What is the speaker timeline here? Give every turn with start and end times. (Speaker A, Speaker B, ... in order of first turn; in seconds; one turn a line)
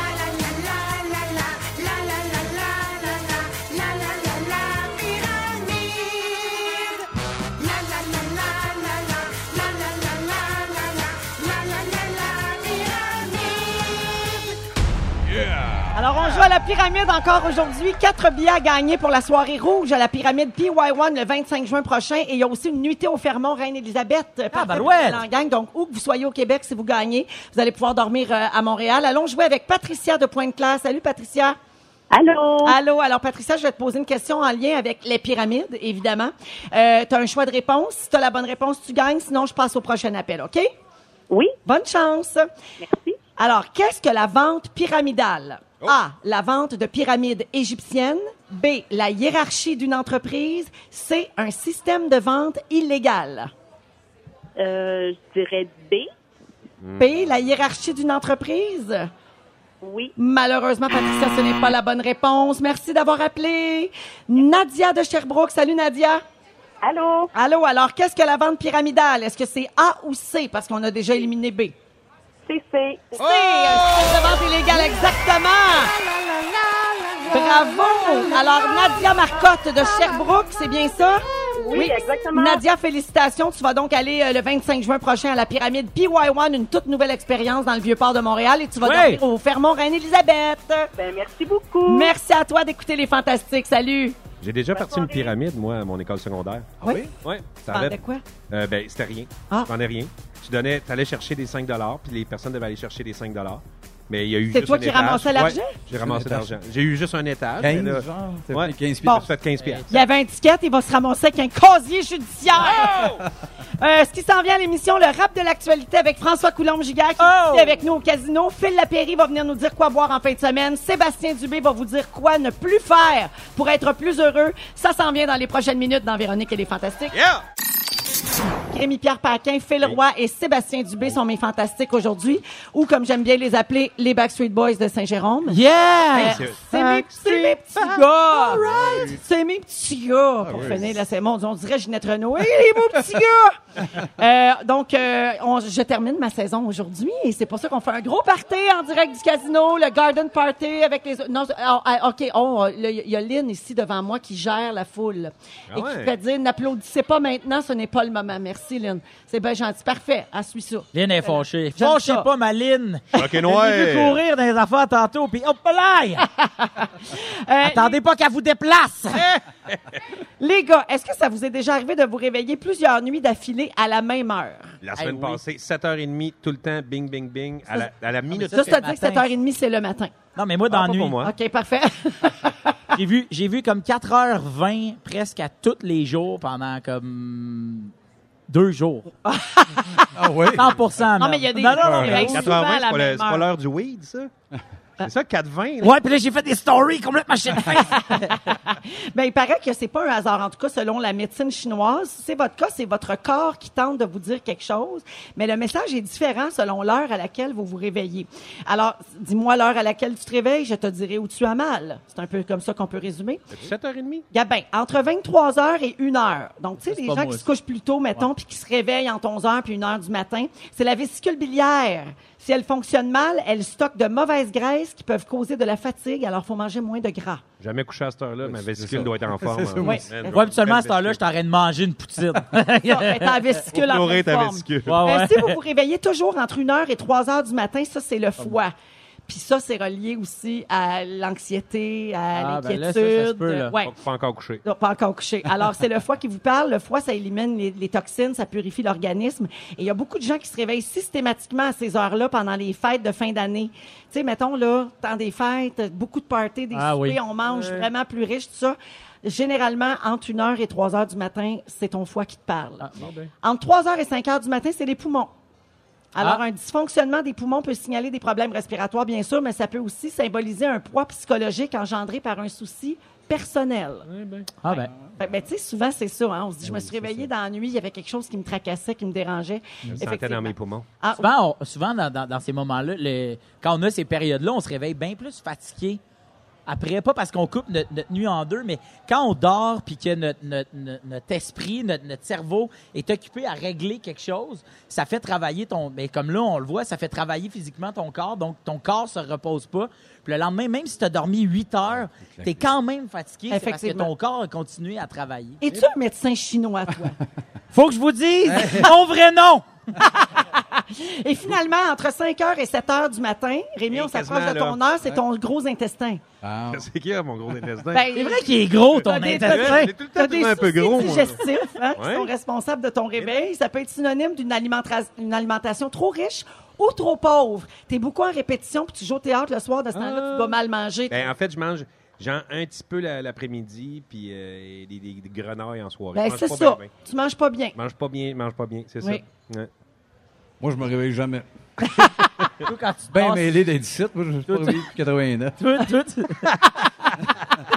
Speaker A: 4.8-6.5
Speaker A: 13.1-13.7
Speaker B: 15.3-15.8
Speaker A: 15.9-31.6
Speaker C: 24.5-25.2
Speaker D: 32.1-32.8
Speaker A: 32.6-40.7
Speaker D: 41.3-41.6
Speaker A: 41.7-42.5
Speaker D: 42.8-43.2
Speaker A: 43.4-53.5
Speaker D: 54.6-56.1
Speaker B: 56.8-57.6
Speaker A: 57.0-59.1
Speaker D: 59.8-60.1
Speaker A: 60.2-66.2
Speaker D: 66.8-67.3
Speaker A: 67.4-71.8
Speaker D: 72.5-73.3
Speaker A: 73.2-76.0
Speaker B: 73.3-74.4
Speaker A: 77.3-90.9
Speaker D: 81.5-82.6
Speaker C: 88.8-89.2
Speaker D: 91.0-92.1
Speaker A: 91.9-94.2
Speaker B: 94.4-98.0
Speaker D: 94.7-95.3
Speaker A: 96.8-97.1
Speaker A: 97.7-98.2
Speaker B: 98.5-109.8
Speaker A: 104.5-105.8
Speaker E: 106.0-106.5
Speaker E: 107.6-109.3
Speaker C: 109.6-110.1
Speaker A: 109.9-113.2
Speaker B: 112.6-113.2
Speaker A: 113.8-127.2
Speaker C: 117.2-117.8
Speaker B: 127.1-127.4
Speaker A: 128.7-135.6
Speaker C: 135.5-137.3
Speaker B: 136.1-136.6
Speaker A: 136.1-162.3
Speaker B: 137.2-139.0
Speaker E: 138.4-139.2
Speaker E: 140.4-141.0
Speaker B: 140.6-140.8
Speaker B: 155.7-156.1
Speaker C: 160.9-166.2
Speaker B: 163.2-164.2
Speaker A: 166.2-168.0
Speaker C: 167.6-169.2
Speaker B: 169.2-170.0
Speaker A: 170.4-174.8
Speaker B: 174.8-178.7
Speaker C: 175.0-175.4
Speaker C: 178.3-179.3
Speaker A: 178.5-180.1
Speaker C: 180.4-181.2
Speaker B: 180.7-181.3
Speaker A: 181.2-182.8
Speaker C: 182.9-187.9
Speaker C: 188.5-189.1
Speaker A: 189.2-190.2
Speaker E: 190.1-190.8
Speaker C: 190.6-192.5
Speaker A: 191.2-193.5
Speaker E: 191.8-192.4
Speaker B: 192.1-194.3
Speaker B: 195.0-196.0
Speaker C: 195.8-198.4
Speaker A: 197.7-213.5
Speaker B: 213.5-214.3
Speaker A: 214.3-227.4
Speaker C: 216.9-217.5
Speaker B: 227.6-231.2
Speaker E: 228.4-230.1
Speaker C: 230.2-233.5
Speaker A: 232.8-238.7
Speaker B: 233.7-235.0
Speaker C: 234.9-235.6
Speaker A: 239.3-243.9
Speaker C: 242.3-243.8
Speaker B: 243.8-244.6
Speaker A: 244.6-262.9
Speaker C: 256.7-257.9
Speaker C: 262.8-263.3
Speaker A: 263.4-265.3
Speaker A: 266.1-274.1
Speaker B: 274.1-274.5
Speaker C: 274.6-274.9
Speaker A: 275.2-281.3
Speaker E: 276.6-277.3
Speaker B: 279.9-280.9
Speaker C: 281.2-286.0
Speaker C: 286.7-305.6
Speaker E: 302.1-302.6
Speaker A: 303.5-304.1
Speaker A: 305.6-307.2
Speaker C: 307.7-309.6
Speaker E: 308.4-308.9
Speaker A: 309.9-316.2
Speaker B: 313.9-314.8
Speaker E: 316.4-316.9
Speaker B: 316.7-318.1
Speaker A: 317.9-331.3
Speaker C: 318.1-319.9
Speaker B: 319.0-322.3
Speaker B: 323.2-323.4
Speaker B: 329.9-330.6
Speaker B: 331.1-336.9
Speaker A: 336.1-337.8
Speaker B: 337.8-339.7
Speaker E: 340.6-341.9
Speaker C: 342.6-343.6
Speaker E: 343.1-345.8
Speaker C: 344.5-344.9
Speaker C: 345.6-346.6